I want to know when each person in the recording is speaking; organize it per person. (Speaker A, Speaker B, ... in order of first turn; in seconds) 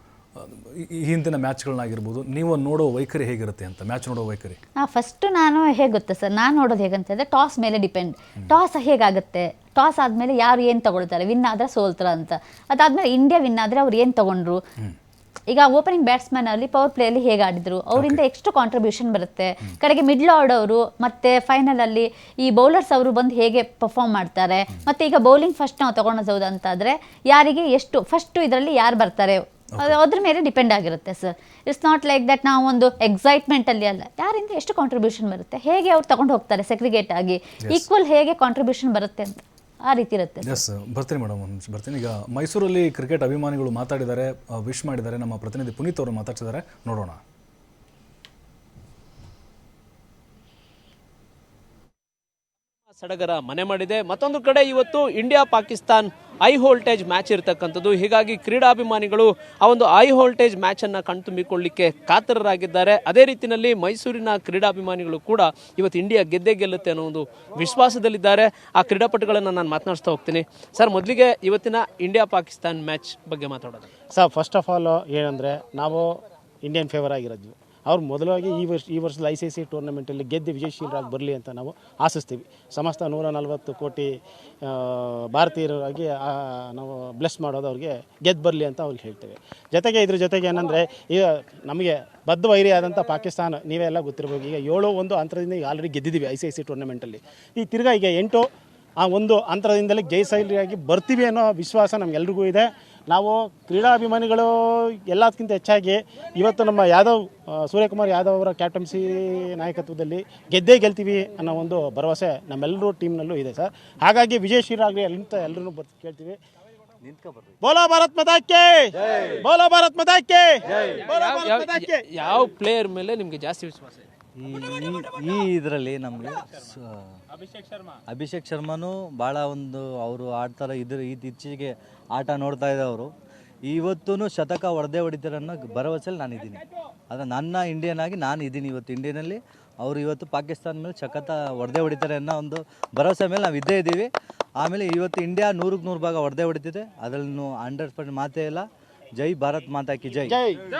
Speaker A: 0.3-4.6, 17.9-18.2, 40.5-47.2
Speaker B: 4.8-14.6, 15.5-40.6
Speaker C: 52.9-73.9, 121.1-124.1
Speaker D: 74.1-84.1, 84.6-98.5, 99.0-116.4, 117.6-122.0, 150.3-150.6
Speaker E: 117.0-117.6, 124.4-127.2, 128.1-133.1, 133.7-150.4